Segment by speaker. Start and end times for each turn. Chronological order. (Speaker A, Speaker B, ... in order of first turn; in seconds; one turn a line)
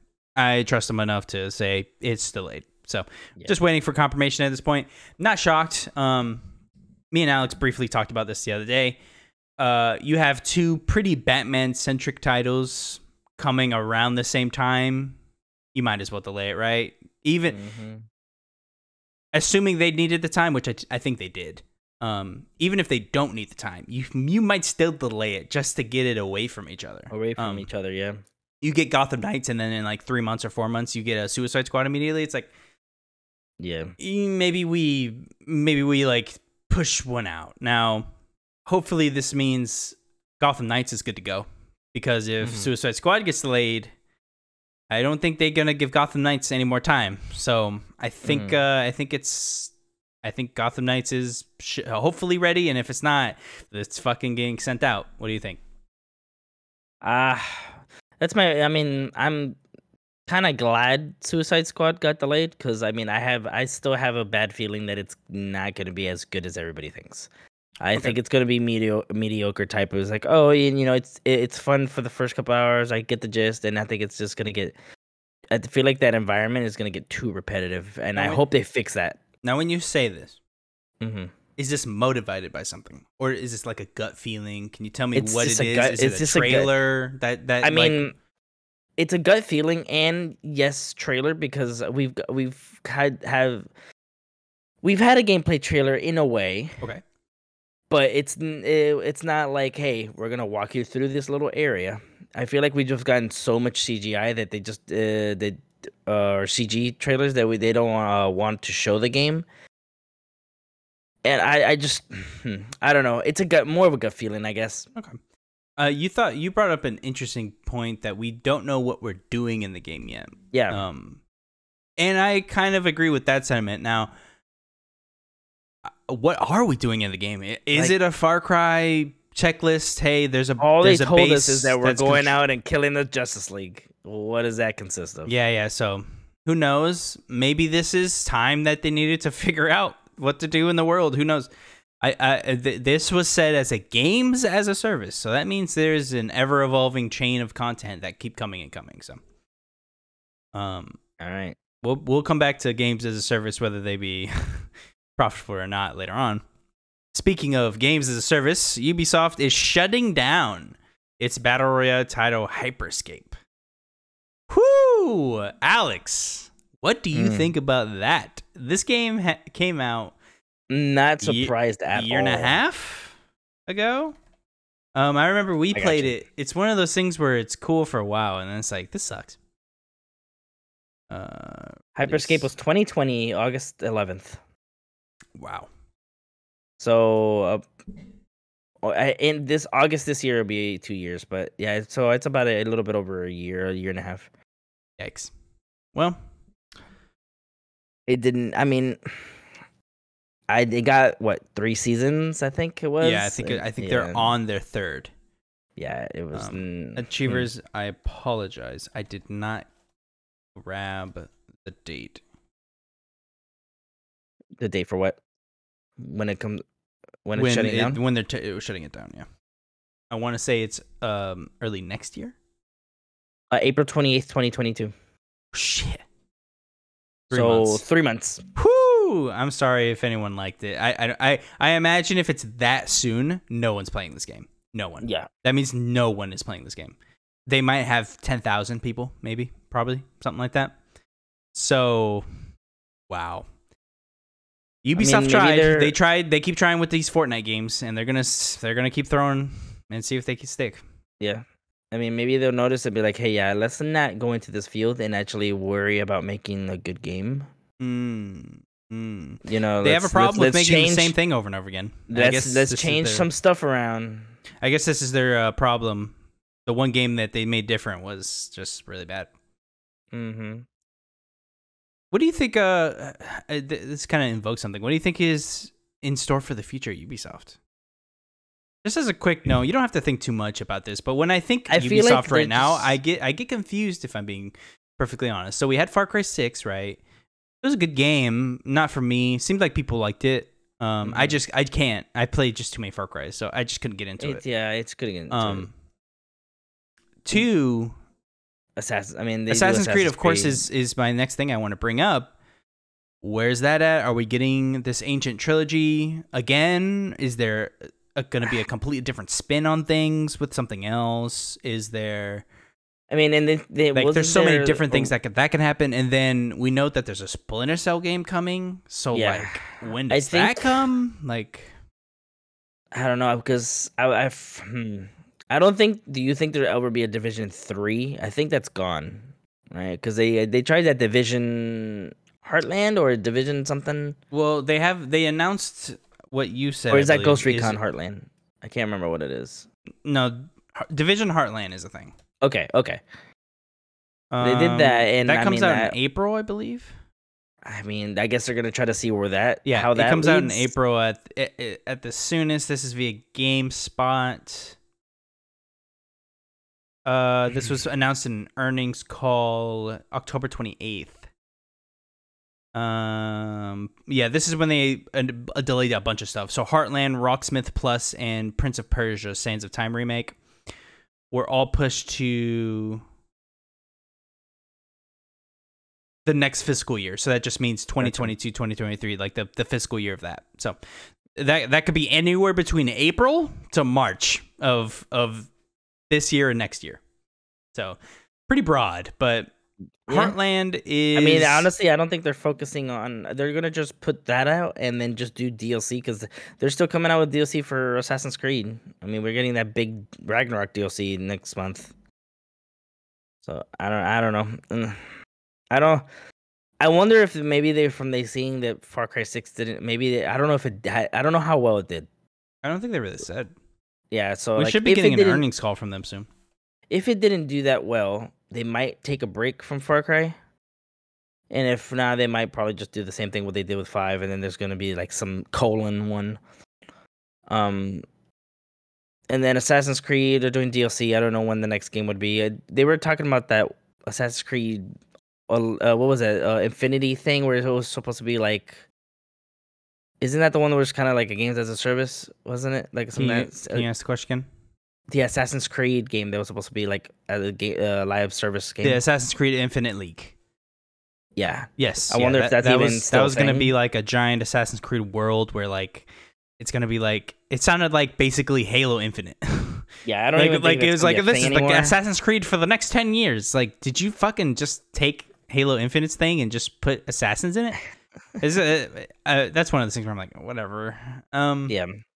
Speaker A: 0.4-6.5
Speaker A: 7.1-9.0
Speaker A: 9.6-15.2
Speaker A: 15.7-17.6
Speaker B: 17.5-18.1
Speaker A: 19.3-27.7
Speaker B: 27.1-28.2
Speaker A: 28.6-32.5
Speaker B: 33.6-33.9
Speaker A: 34.0-38.1
Speaker A: 38.7-43.9
Speaker B: 42.4-42.7
Speaker A: 44.9-55.6
Speaker B: 48.2-48.6
Speaker B: 57.0-59.6
Speaker B: 60.3-67.3
Speaker B: 67.8-74.7
Speaker B: 75.5-79.2
Speaker A: 78.2-78.4
Speaker A: 79.4-80.4
Speaker B: 81.0-81.3
Speaker A: 81.6-88.0
Speaker B: 85.1-86.7
Speaker B: 87.6-88.1
Speaker B: 89.0-93.7
Speaker B: 94.8-96.8
Speaker B: 97.9-109.4
Speaker B: 111.2-114.9
Speaker A: 114.9-115.2
Speaker A: 115.8-121.2
Speaker B: 120.5-120.8
Speaker A: 122.0-124.1
Speaker A: 125.8-132.4
Speaker B: 130.6-135.3
Speaker A: 135.3-141.5
Speaker A: 142.0-149.2
Speaker A: 150.5-151.0
Speaker B: 151.2-151.6
Speaker A: 151.8-156.4
Speaker A: 157.1-163.4
Speaker A: 164.5-170.1
Speaker B: 167.1-167.5
Speaker B: 170.7-172.6
Speaker A: 171.2-173.2
Speaker A: 173.7-174.2
Speaker A: 174.9-179.4
Speaker B: 175.7-176.1
Speaker A: 181.1-182.5
Speaker B: 181.9-184.4
Speaker A: 185.3-185.7
Speaker B: 186.8-187.7
Speaker B: 188.8-194.3
Speaker A: 195.0-195.3
Speaker A: 195.9-196.2
Speaker B: 198.1-199.3
Speaker B: 200.5-204.3
Speaker A: 203.0-205.1
Speaker B: 205.8-207.5
Speaker A: 206.3-209.7
Speaker A: 210.5-212.2
Speaker B: 214.6-215.2
Speaker B: 216.0-216.6
Speaker B: 217.2-218.0
Speaker A: 217.3-219.3
Speaker A: 220.1-222.3
Speaker B: 223.5-224.9
Speaker A: 225.5-226.0
Speaker B: 227.3-228.4
Speaker A: 227.3-227.8
Speaker A: 228.6-240.8
Speaker B: 235.0-235.3
Speaker A: 241.5-242.2
Speaker A: 243.1-243.5
Speaker A: 244.8-250.8
Speaker B: 244.9-245.9
Speaker B: 251.2-257.5
Speaker A: 257.8-263.3
Speaker B: 259.4-261.1
Speaker B: 262.1-264.4
Speaker A: 264.6-269.3
Speaker B: 270.1-270.6
Speaker A: 272.1-277.6
Speaker A: 278.8-287.0
Speaker B: 281.7-282.9
Speaker A: 287.6-294.4
Speaker B: 291.0-291.4
Speaker B: 294.2-295.7
Speaker A: 295.3-295.7
Speaker A: 297.2-297.9
Speaker B: 298.8-300.6
Speaker A: 299.5-302.3
Speaker A: 303.2-312.4
Speaker B: 313.1-315.1
Speaker A: 313.9-321.7
Speaker B: 319.1-320.8
Speaker B: 322.9-334.2
Speaker A: 334.3-337.8
Speaker B: 336.9-339.7
Speaker A: 340.0-342.1
Speaker B: 342.4-343.0
Speaker A: 344.3-346.9
Speaker B: 344.4-345.9
Speaker B: 347.6-350.7
Speaker A: 349.6-354.8
Speaker A: 357.0-361.3
Speaker A: 362.7-370.4
Speaker A: 371.3-373.0
Speaker A: 376.2-380.8
Speaker B: 378.0-378.3
Speaker A: 381.3-385.5
Speaker A: 386.1-387.0
Speaker A: 387.7-389.5
Speaker B: 390.1-390.3
Speaker A: 390.1-391.7
Speaker B: 391.1-401.9
Speaker B: 403.4-405.0
Speaker B: 405.7-406.0
Speaker B: 406.8-412.1
Speaker A: 412.6-413.5
Speaker B: 414.1-415.4
Speaker A: 414.6-416.3
Speaker B: 416.9-420.4
Speaker B: 421.5-426.4
Speaker B: 427.5-428.0
Speaker B: 429.3-434.9
Speaker B: 435.5-438.8
Speaker B: 440.2-443.9
Speaker A: 443.1-444.5
Speaker B: 445.1-449.0
Speaker A: 448.8-450.3
Speaker B: 451.4-453.7
Speaker A: 451.8-456.1
Speaker A: 456.6-467.8
Speaker B: 460.0-461.9
Speaker A: 468.4-471.7
Speaker B: 471.7-472.0